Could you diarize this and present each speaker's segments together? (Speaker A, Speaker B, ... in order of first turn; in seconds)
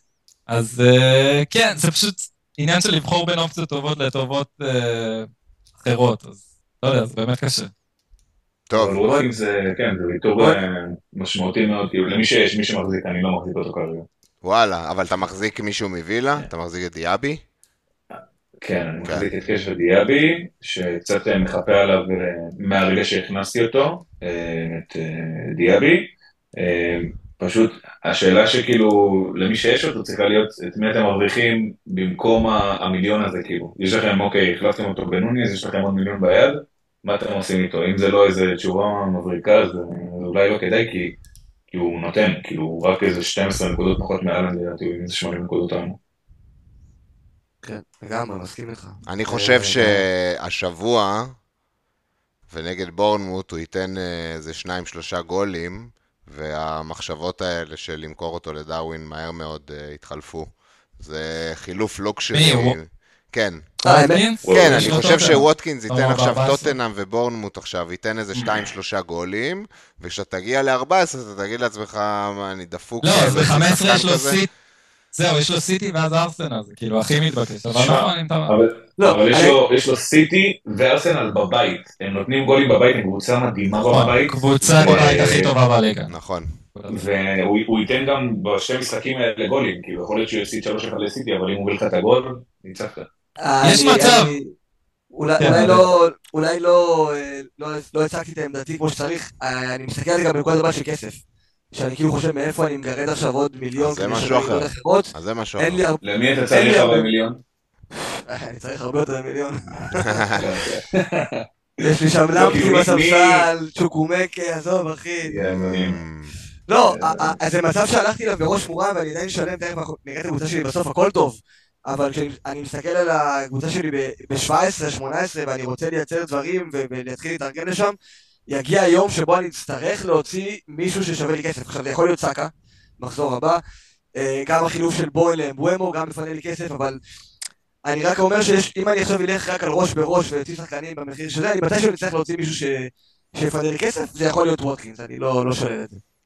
Speaker A: 0.5-5.3, 5.8-7.7, 62.3-62.8, 63.8-66.7, 73.0-74.5, 75.1-78.5, 83.8-86.1, 86.8-87.1, 93.6-94.3, 95.4-95.8
Speaker B: 8.7-9.0, 14.4-17.4, 49.1-51.4, 52.5-63.7, 64.5-74.4, 84.8-85.5, 86.1-86.6, 103.8-105.8, 110.0-110.4, 115.4-116.3
Speaker C: 8.7-14.1, 18.1-41.2, 41.7-46.0, 64.4-65.2, 77.7-85.5, 86.9-93.1, 106.0-107.4, 110.4-113.5, 115.3-116.0, 116.9-117.4
Speaker D: 47.6-50.0, 63.8-64.2, 79.0-79.6, 93.4-94.5, 95.1-101.2, 101.7-107.1, 108.0-110.5, 111.8-115.4, 116.7-128.0, 128.5-133.6, 134.2-137.0, 137.8-145.9